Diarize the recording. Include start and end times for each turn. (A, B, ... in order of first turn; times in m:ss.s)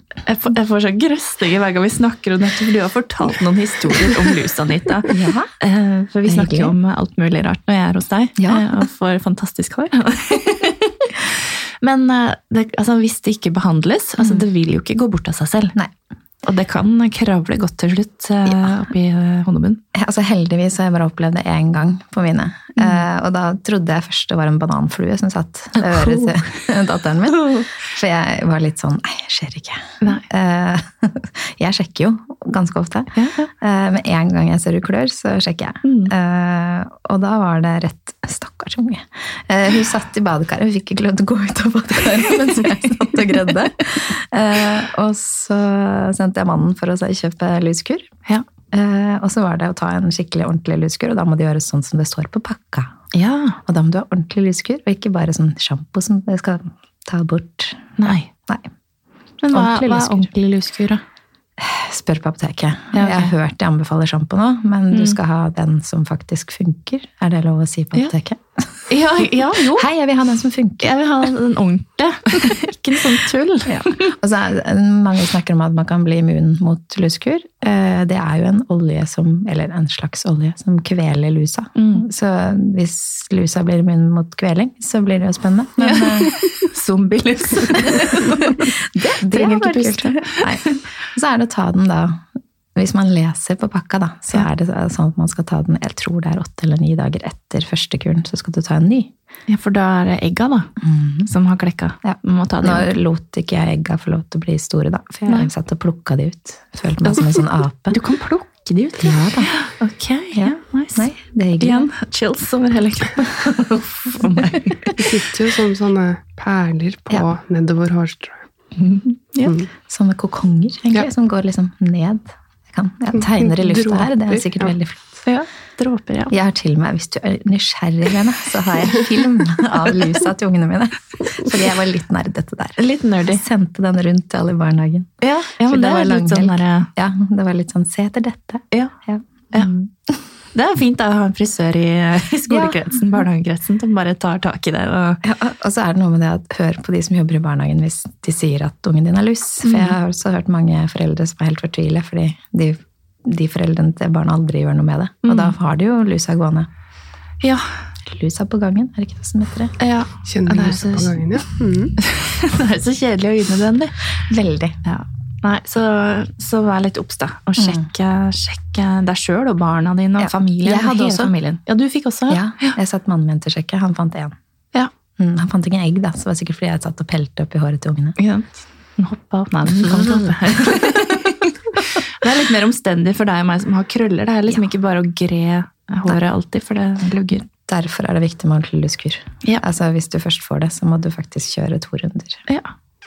0:00.2-0:15.8 A
0:05.1-0:05.5 B
0:06.2-0:06.7 B
0:08.4-0:08.7 B
0:16.4-0:19.8 A
0:19.9-0:48.1 B
0:25.8-0:26.4 A
0:27.3-0:27.7 A
0:33.2-0:33.5 A
0:35.8-0:36.1 A
0:48.7-0:52.9 B
0:53.1-0:53.6 A
0:53.6-0:58.7 B
0:58.0-0:58.3 A
0:59.4-1:01.0 A
0:59.5-1:00.3 B
1:01.6-1:08.7 B
1:02.9-1:03.3 A
1:04.9-1:05.2 A
1:08.9-1:09.9 A
1:09.7-1:10.9 B
1:10.8-1:14.1 A
1:13.6-1:26.3 B
1:21.7-1:22.1 A
1:25.8-1:30.8 A
1:28.0-1:39.1 B
1:39.5-1:40.7 A
1:40.8-1:41.3 B
1:41.2-1:42.9 A
1:42.0-1:48.0 B
1:47.0-1:54.9 A
1:49.0-1:49.5 B
1:50.3-1:51.9 B
1:55.0-1:58.4 C
1:58.8-1:59.6 A
1:59.8-2:05.2 B
2:03.2-2:04.7 C
2:05.2-2:06.3 A
2:06.3-2:20.2 B
2:12.8-2:13.4 A
2:15.2-2:16.9 A
2:20.5-2:25.2 A
2:22.5-2:22.8 B
2:25.2-2:36.7 B
2:29.6-2:29.9 A
2:35.2-2:35.5 A
2:37.4-2:37.7 A
2:38.0-2:39.7 B
2:39.8-2:41.2 A
2:40.2-2:41.9 C
2:42.0-2:44.0 A
2:44.3-2:44.8 B
2:44.8-2:52.8 A
2:47.6-2:47.8 B
2:50.2-2:51.3 B
2:52.3-2:54.3 B
2:55.2-2:58.2 B
2:58.2-3:07.4 A
2:59.7-3:00.4 B
3:07.5-3:12.4 B
3:12.5-3:12.7 A